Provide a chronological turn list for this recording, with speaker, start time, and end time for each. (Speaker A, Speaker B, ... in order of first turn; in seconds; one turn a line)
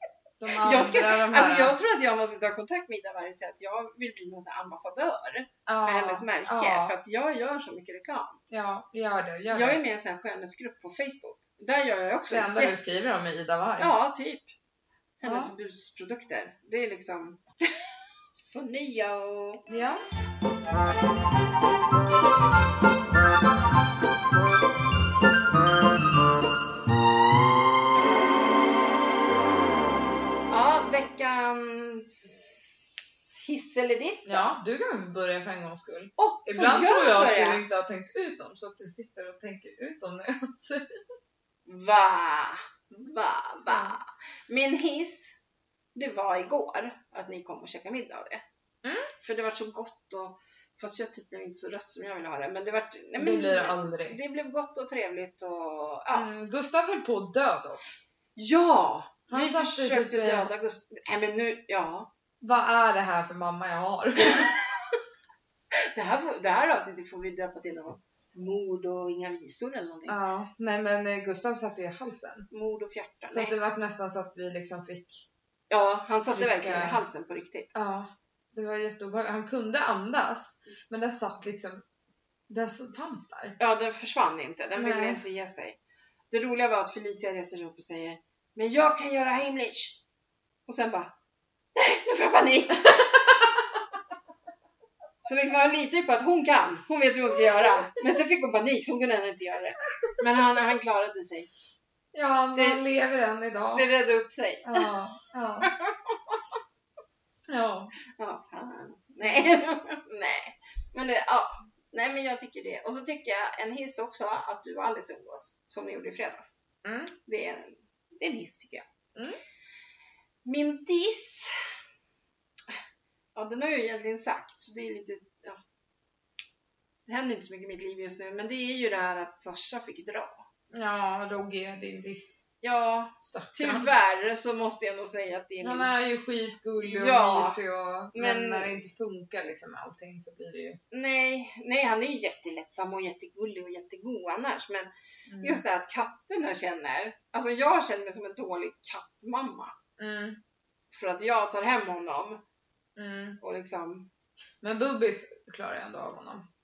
Speaker A: 0.4-1.7
Speaker B: 0.5-8.4
Speaker A: 5.7-7.0
Speaker A: 8.5-9.8
Speaker B: 9.5-12.8
Speaker A: 12.3-13.9
Speaker B: 13.8-14.5
Speaker B: 15.2-19.6
Speaker A: 15.2-15.5
Speaker A: 19.7-20.0
Speaker B: 30.5-34.6
Speaker A: 34.2-40.8
Speaker B: 36.2-37.6
Speaker B: 41.6-45.4
Speaker A: 43.7-44.0
Speaker B: 45.9-48.4
Speaker A: 48.8-49.1
Speaker B: 49.2-56.3
Speaker A: 53.2-54.2
Speaker A: 56.1-57.8
Speaker B: 58.4-62.1
Speaker A: 59.3-60.5
Speaker A: 62.4-64.5
Speaker B: 64.2-65.0
Speaker B: 65.9-70.2
Speaker A: 70.1-72.5
Speaker B: 72.5-73.5
Speaker A: 73.3-75.2
Speaker B: 75.7-77.7
Speaker A: 76.3-77.0
Speaker A: 77.7-81.8
Speaker A: 82.5-83.6
Speaker B: 83.6-85.8
Speaker A: 84.8-85.2
Speaker B: 86.3-90.0
Speaker B: 90.7-91.1
Speaker B: 91.7-93.0
Speaker A: 92.8-93.7
Speaker B: 95.2-101.5
Speaker A: 102.1-103.9
Speaker B: 102.5-102.8
Speaker B: 103.7-104.9
Speaker A: 104.6-105.7
Speaker B: 105.6-106.4
Speaker A: 107.5-107.9
Speaker B: 108.1-116.5
Speaker A: 109.2-109.5
Speaker A: 116.8-117.1
Speaker B: 117.2-118.8
Speaker A: 119.1-119.4
Speaker B: 120.4-121.5
Speaker B: 123.3-125.6
Speaker B: 127.0-130.4
Speaker A: 130.7-132.5
Speaker B: 132.6-135.9
Speaker A: 133.2-133.9
Speaker A: 135.6-140.8
Speaker B: 136.8-137.6
Speaker B: 138.1-138.8
Speaker B: 140.9-144.9
Speaker A: 145.3-145.6
Speaker B: 145.4-149.8
Speaker A: 150.0-150.4
Speaker B: 150.9-152.4
Speaker A: 152.9-153.4
Speaker B: 153.4-154.1
Speaker A: 154.6-156.4